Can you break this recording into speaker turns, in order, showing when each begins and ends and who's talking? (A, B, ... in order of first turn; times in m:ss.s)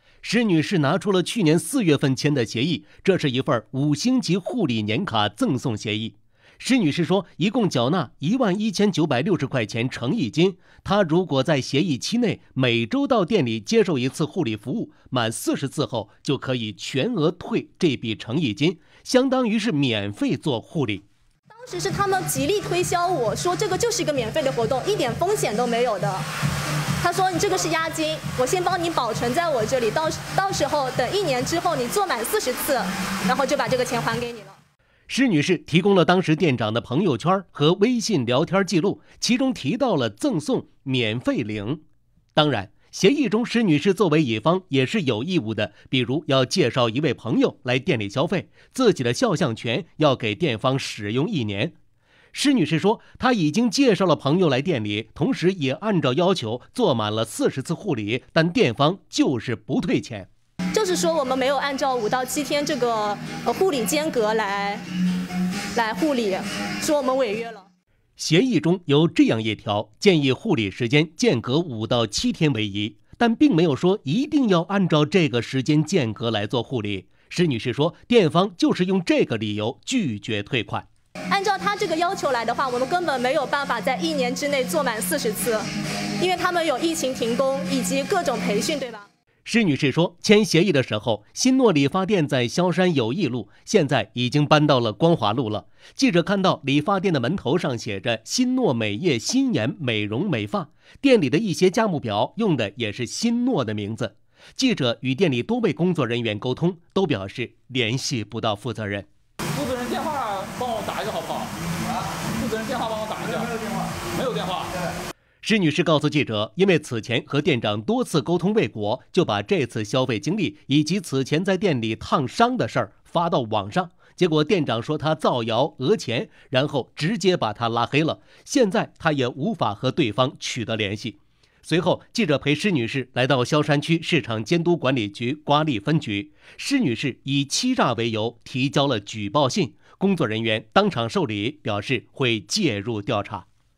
0:00.2-0:21.0 A
0:21.5-0:34.6 B
0:35.1-0:41.8 A
0:42.3-0:51.7 A
0:52.3-1:00.3 A
1:00.7-1:04.8 B
1:05.7-1:07.7 B
1:08.2-1:20.9 A
1:21.3-1:25.6 B
1:26.2-1:29.1 B
1:29.4-1:49.1 A
1:49.5-1:51.5 C
1:52.2-1:54.7 C
1:55.4-2:23.4 A